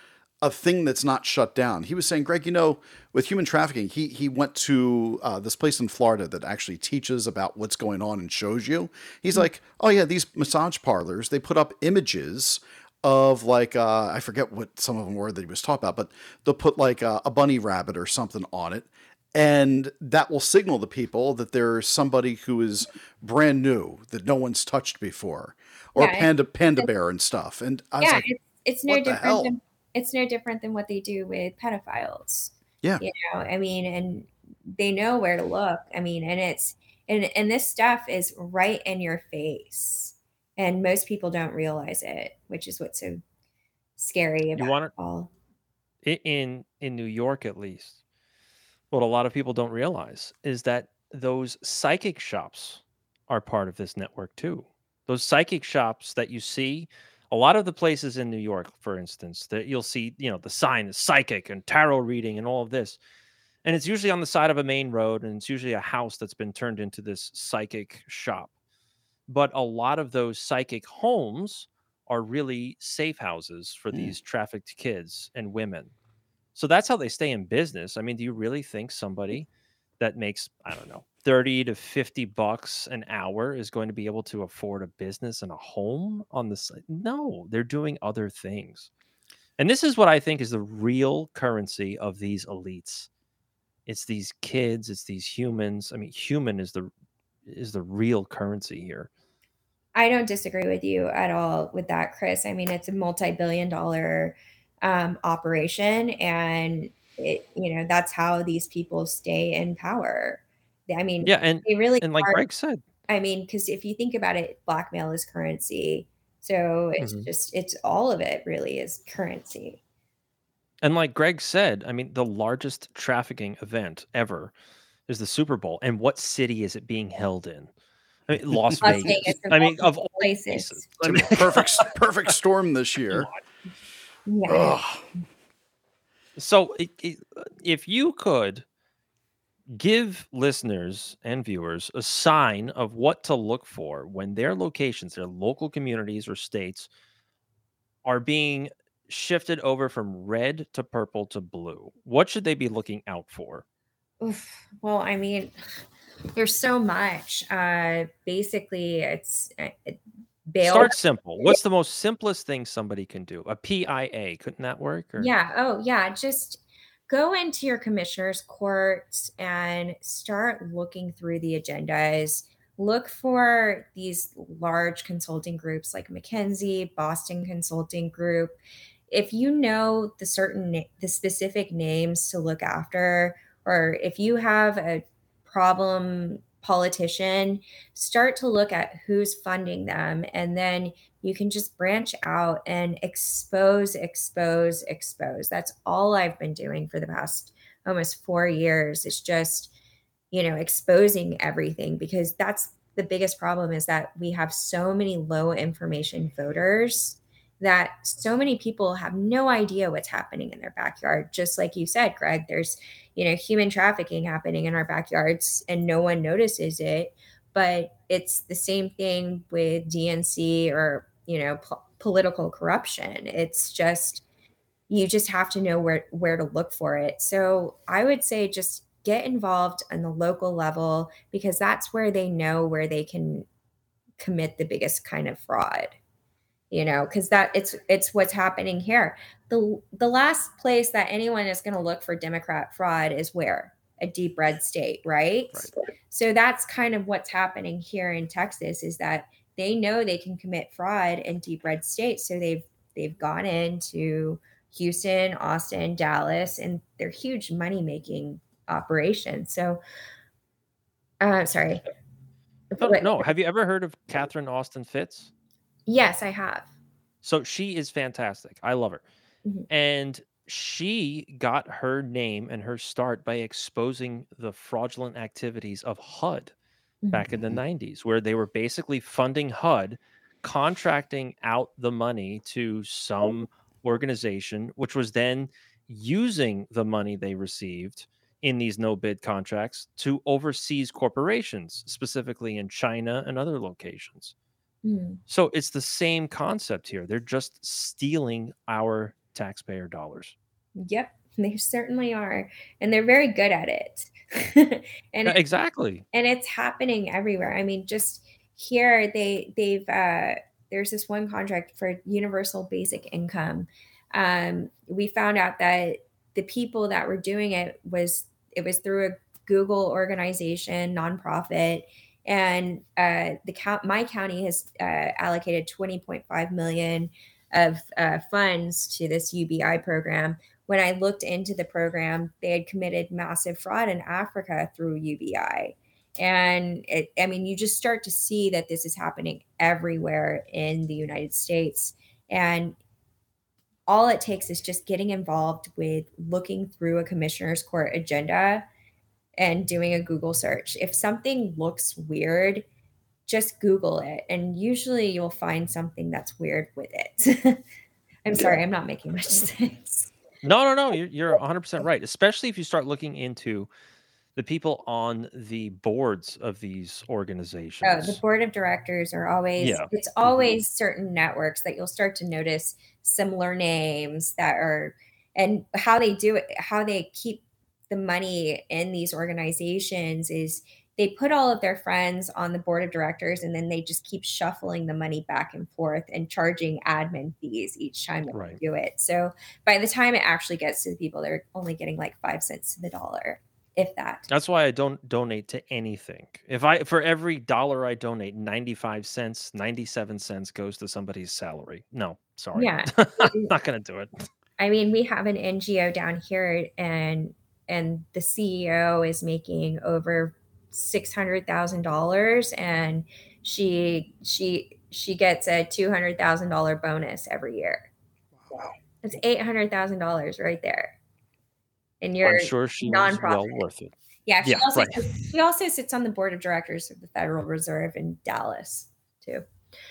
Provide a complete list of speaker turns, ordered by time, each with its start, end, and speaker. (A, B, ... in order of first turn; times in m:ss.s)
0:00.4-0:28.3 A
0:26.0-0:26.3 B
0:28.0-0:43.2 B
0:28.9-0:29.5 A
0:44.0-0:45.3 B
0:44.6-0:44.9 C
0:46.0-0:48.0 C
0:48.9-1:03.0 C
1:03.6-1:08.5 C
1:09.3-1:15.9 C
1:16.6-1:19.5 C
1:20.0-1:28.9 C
1:29.6-1:33.1 C
1:33.9-1:36.9 C
1:37.5-1:39.1 C
1:40.0-1:52.4 B
1:51.2-1:52.8 C
1:53.1-1:59.8 B
1:57.0-1:57.3 C
2:00.8-2:04.5 C
2:05.1-2:07.7 C
2:08.3-2:11.9 C
2:08.5-2:08.9 A
2:08.8-2:10.8 B
2:11.0-2:13.3 A
2:14.3-2:14.8 B
2:14.5-2:15.0 A
2:16.4-2:18.6 C
2:19.7-2:26.9 C
2:28.0-2:33.6 C
2:34.2-2:35.5 B
2:36.4-2:40.9 B
2:40.6-2:45.3 C
2:45.2-2:58.6 B
2:59.1-3:19.7 B
3:20.3-3:44.2 B
3:44.9-3:53.5 B
3:54.2-3:55.9 B
3:56.7-4:19.8 B
4:21.2-4:21.8 B
4:22.7-4:23.3 B
4:22.8-4:25.3 C
4:25.9-4:26.7 B
4:27.2-4:29.0 C
4:29.7-4:36.5 C
4:37.0-4:37.3 B
4:37.1-4:54.3 C
4:37.3-4:37.6 A
4:54.8-4:55.2 B
4:55.3-5:00.4 C
5:00.8-5:05.4 B
5:05.3-5:06.0 C
5:06.1-5:42.8 B
5:43.9-5:48.7 B
5:49.4-5:52.6 B
5:53.3-5:57.6 B
5:58.2-6:00.1 B
6:00.4-6:03.7 C
6:04.4-6:08.2 C
6:07.8-6:34.3 B
6:09.6-6:09.9 C
6:28.3-6:28.6 C
6:34.3-6:44.1 C
6:42.6-6:43.6 B
6:44.6-6:57.9 B
6:58.4-6:58.7 A
6:59.0-7:01.0 B
7:02.0-7:03.6 B
7:02.2-7:03.9 C
7:04.3-7:09.4 B
7:04.4-7:05.2 C